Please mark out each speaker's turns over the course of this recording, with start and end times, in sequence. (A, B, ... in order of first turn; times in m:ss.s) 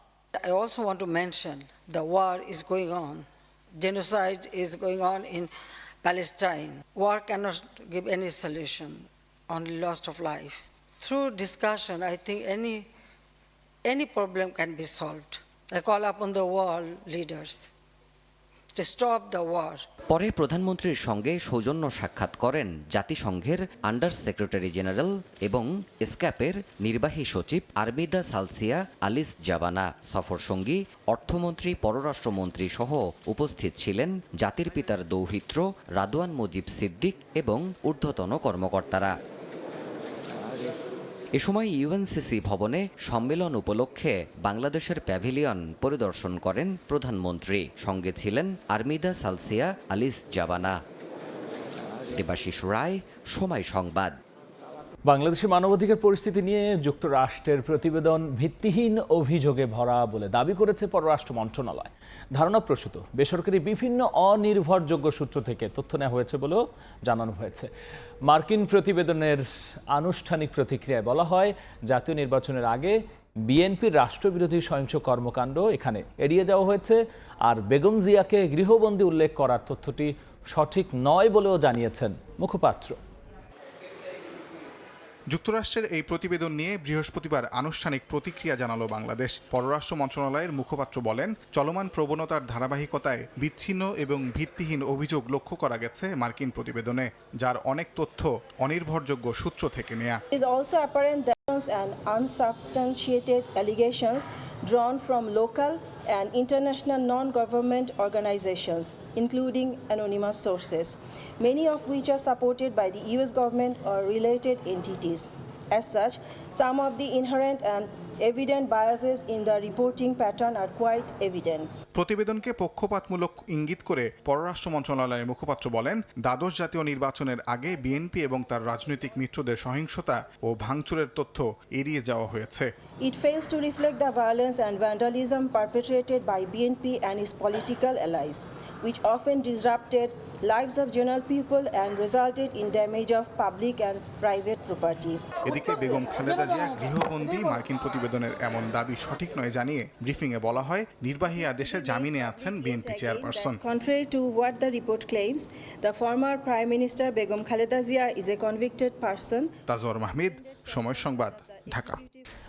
0:00.4-0:03.2 A
0:03.8-0:05.5 A
0:06.0-0:12.8 A
0:13.8-0:17.7 A
0:18.8-0:19.8 A
0:20.1-0:39.1 B
0:41.4-0:50.8 B
0:52.1-0:54.1 B
0:55.0-1:07.7 C
1:08.2-1:23.0 C
1:25.3-1:40.2 D
1:40.3-2:01.7 E
2:01.9-2:12.7 D
2:13.0-2:25.2 E
2:25.4-2:33.6 D
2:31.3-2:42.2 E
2:39.7-2:42.0 D